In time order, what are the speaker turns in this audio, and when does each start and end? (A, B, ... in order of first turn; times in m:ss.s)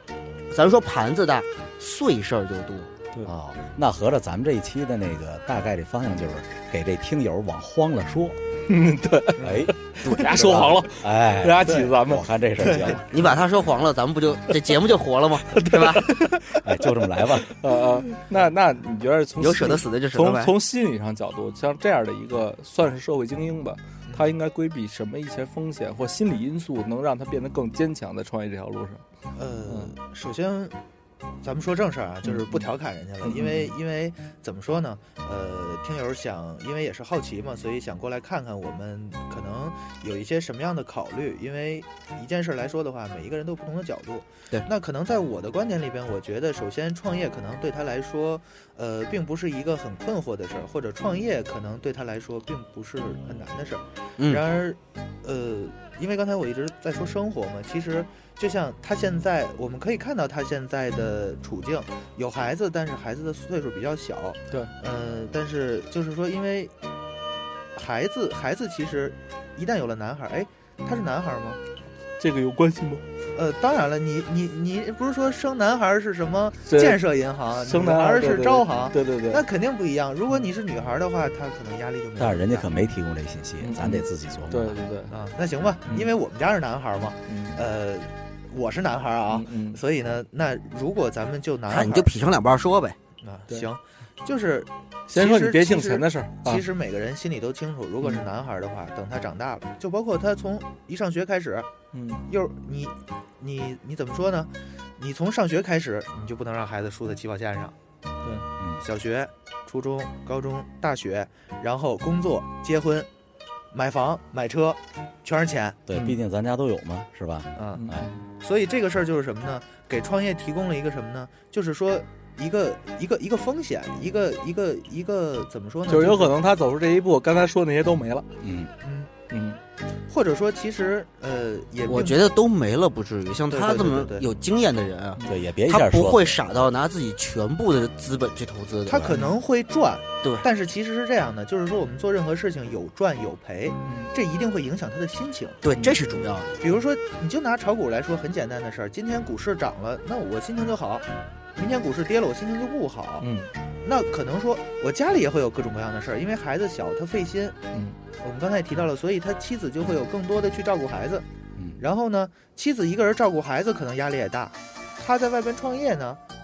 0:00.5-0:02.9 A
0:03.2-0:08.4 B
0:08.7-0:12.2 C
0:09.4-0:09.7 D
0:09.4-0:09.7 B
0:10.0-0:10.8 A
0:10.2-0:10.7 D
0:11.0-0:13.2 B
0:11.6-0:11.9 D
0:12.6-0:13.0 D
0:13.1-0:16.0 A
0:15.5-0:16.6 C
0:16.5-0:17.5 B
0:17.4-0:29.0 C
0:19.4-0:20.5 A
0:24.1-0:24.3 D
0:29.3-0:30.8 D
0:29.7-0:29.9 C
0:31.4-1:06.7 D
0:32.2-0:32.7 C
0:33.2-0:33.7 C
1:07.7-1:11.6 D
1:12.2-1:13.0 C
1:13.3-1:22.7 D
1:16.6-1:17.0 C
1:17.5-1:19.4 C
1:22.2-1:24.8 B
1:23.6-1:25.1 C
1:25.1-1:32.1 D
1:27.3-1:27.6 C
1:29.3-1:29.8 C
1:31.7-1:33.0 A
1:33.2-1:41.7 D
1:35.1-1:36.6 C
1:41.9-1:42.2 C
1:42.3-1:47.7 D
1:48.8-1:53.1 D
1:53.7-1:55.8 D
1:55.9-1:58.1 B
1:55.9-1:56.2 C
1:57.5-1:57.8 D
1:57.8-1:58.2 C
1:58.4-2:06.4 D
2:05.9-2:08.3 C
2:08.4-2:08.7 B
2:08.8-2:09.1 D
2:09.3-2:09.6 C
2:10.1-2:12.3 D
2:11.9-2:19.0 A
2:13.5-2:14.3 D
2:15.2-2:16.4 B
2:18.8-2:25.6 D
2:19.1-2:19.4 C
2:23.8-2:24.1 C
2:25.6-2:26.5 A
2:25.8-2:26.2 C
2:26.6-2:31.0 D
2:31.6-2:33.3 D
2:33.2-2:33.5 C
2:33.8-2:37.6 D
2:38.2-2:41.2 D
2:41.6-2:41.8 B
2:41.8-2:46.2 D